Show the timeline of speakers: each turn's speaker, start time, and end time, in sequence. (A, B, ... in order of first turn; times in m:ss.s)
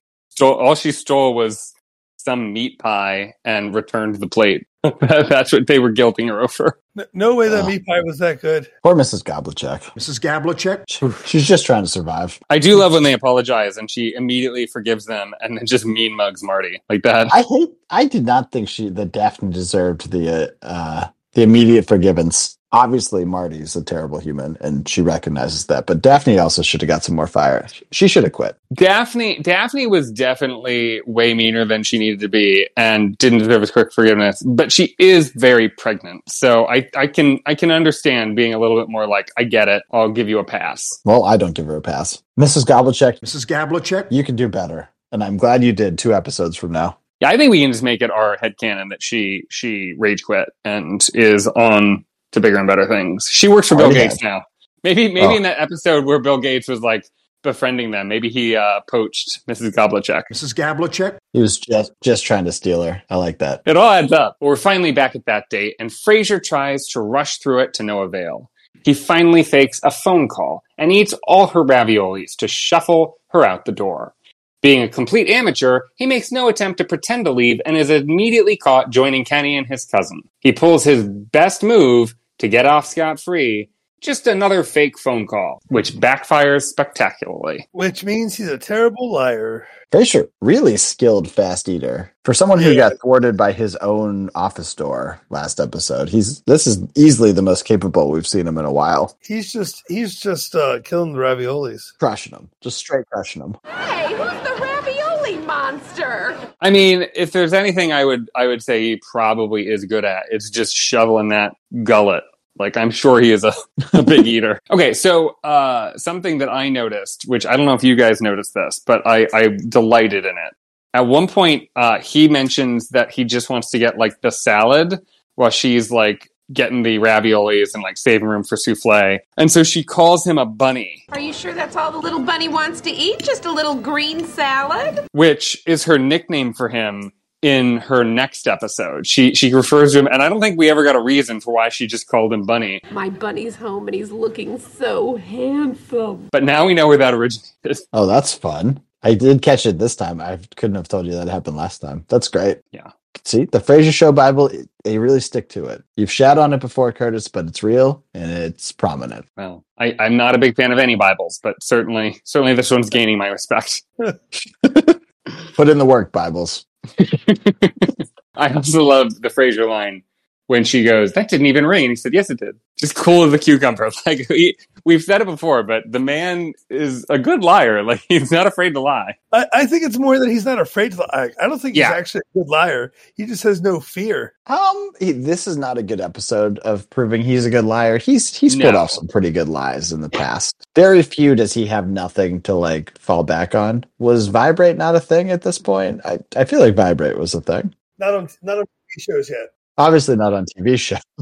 0:00.3-0:06.8 A
0:07.0-0:08.7 B
0:07.4-0:07.7 C
0:08.8-0:09.9 C
0:10.0-0:10.9 D
0:10.9-0:12.4 C
0:12.5-0:17.3 A
0:17.3-0:28.6 C
0:28.7-0:41.0 A
0:41.0-0:43.2 C
0:43.2-0:44.1 D
0:44.1-0:47.0 C
0:47.2-1:00.3 A
0:53.7-0:54.2 C
1:00.3-1:01.2 D
1:01.3-1:03.6 C
1:03.6-1:27.6 A
1:27.7-1:29.7 B
1:29.9-1:39.1 C
1:32.6-1:32.9 B
1:39.2-1:41.9 B
1:42.0-1:43.6 C
1:43.7-1:46.4 E
1:46.6-2:11.0 A
1:54.0-1:54.2 C
2:11.1-2:15.0 E
2:15.1-2:22.8 A
2:22.9-2:26.3 E
2:26.3-2:27.8 A
2:27.9-2:32.6 C
2:33.2-2:39.2 C
2:39.4-2:43.8 A
2:44.6-2:45.0 C
2:45.6-2:46.6 C
2:47.0-2:59.2 A
2:59.3-3:04.3 B
3:01.7-3:02.0 A
3:04.5-3:17.7 C
3:08.5-3:09.0 A
3:18.0-3:19.5 B
3:19.8-3:21.0 C